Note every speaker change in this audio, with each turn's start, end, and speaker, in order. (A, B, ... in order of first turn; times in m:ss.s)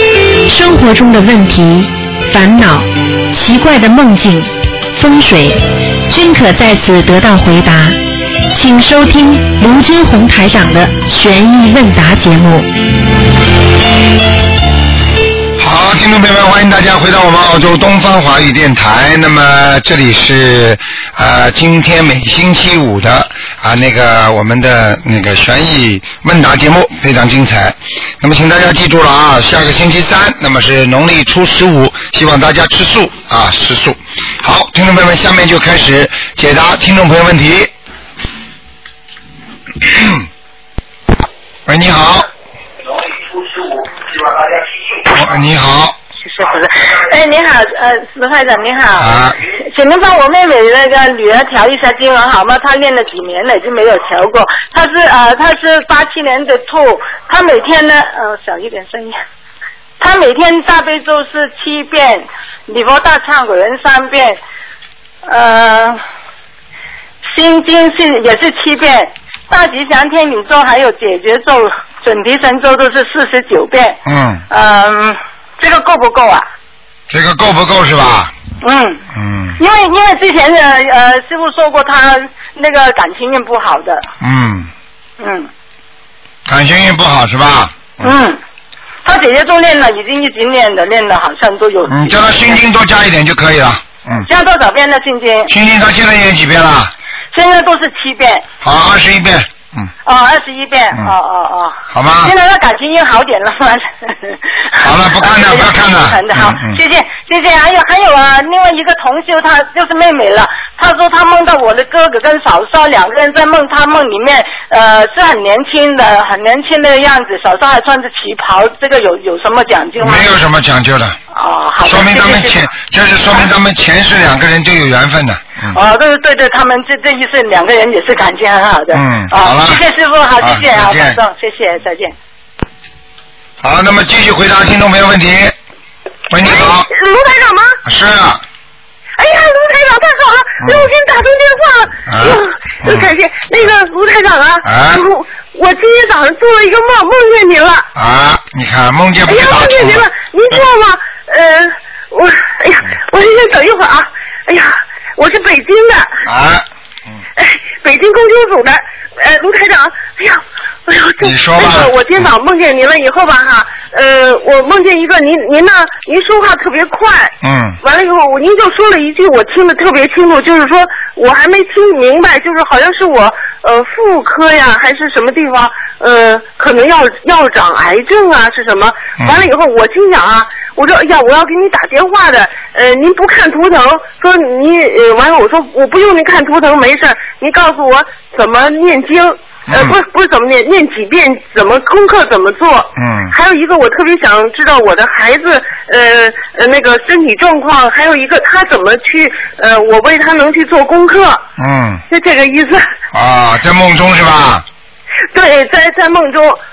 0:00.5-0:08.0 A
0:08.5-0:12.7 A
0:15.6-0:37.7 B
0:39.8-0:40.3 B
0:41.7-0:42.3 B
0:45.1-0:46.0 B
0:46.2-0:59.2 C
0:49.0-0:49.4 B
1:00.0-1:04.4 C
1:05.3-1:06.0 C
1:07.2-1:14.0 C
1:14.1-1:14.4 B
1:14.5-1:16.5 C
1:17.1-1:18.3 B
1:18.6-1:19.0 C
1:19.1-1:19.6 B
1:19.6-1:24.1 C
1:24.2-1:24.7 B
1:25.2-1:25.5 C
1:26.5-1:28.1 B
1:28.0-1:28.4 C
1:29.0-1:32.6 C
1:31.9-1:34.3 B
1:34.2-1:35.5 C
1:35.5-1:36.9 B
1:37.3-1:38.5 C
1:38.6-1:39.9 B
1:40.1-2:00.3 C
1:41.9-1:42.3 B
1:44.8-1:46.8 B
2:00.0-2:01.2 B
2:01.3-2:02.7 C
2:01.8-2:05.8 B
2:05.7-2:12.1 C
2:08.9-2:09.8 B
2:10.4-2:11.2 B
2:13.6-2:15.6 B
2:16.3-2:16.9 B
2:16.4-2:17.8 D
2:17.8-2:18.4 B
2:19.2-2:27.9 D
2:20.6-2:20.9 B
2:22.1-2:23.1 B
2:24.6-2:25.0 B
2:28.0-2:30.1 B
2:29.3-2:36.1 D
2:36.2-2:36.7 B
2:37.4-3:21.4 D
2:41.2-2:42.3 B
2:47.4-2:47.8 B
2:59.2-2:59.5 B
3:09.7-3:10.0 B
3:13.0-3:13.3 B
3:21.6-3:22.0 B
3:22.1-3:22.8 D
3:23.1-3:24.6 B
3:25.3-3:26.6 D